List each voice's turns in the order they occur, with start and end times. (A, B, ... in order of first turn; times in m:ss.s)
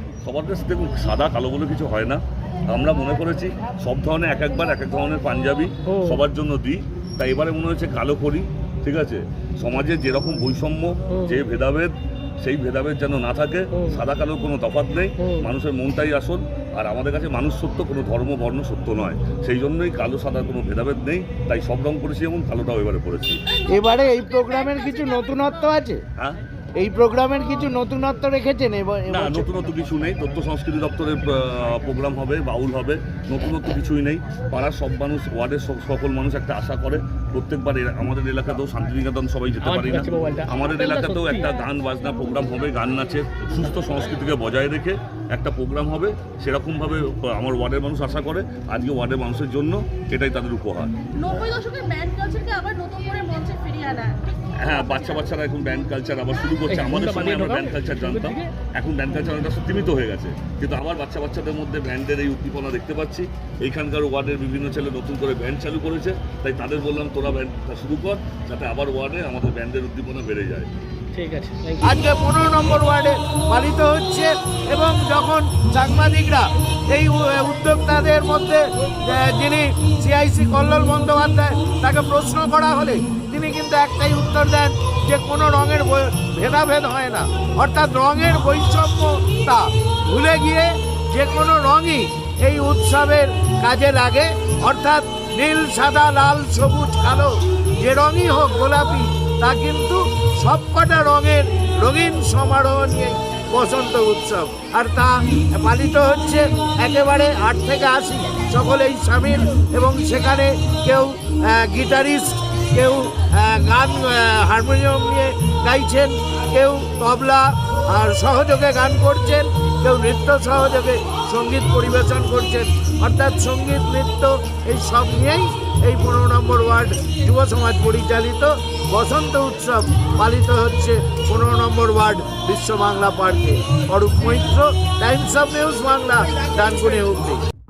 0:00.2-0:23.4 A
0:05.9-0:06.2 B
0:11.1-0:11.4 B
0:13.7-0:14.0 B
0:15.2-0:15.5 B
0:23.7-0:26.0 C
0:26.8-0:29.5 C
0:29.1-0:50.9 A
0:39.6-0:41.5 B
0:51.2-0:54.1 D
0:54.6-1:10.7 A
0:56.7-0:58.5 B
1:11.1-1:12.0 B
1:11.8-2:17.4 C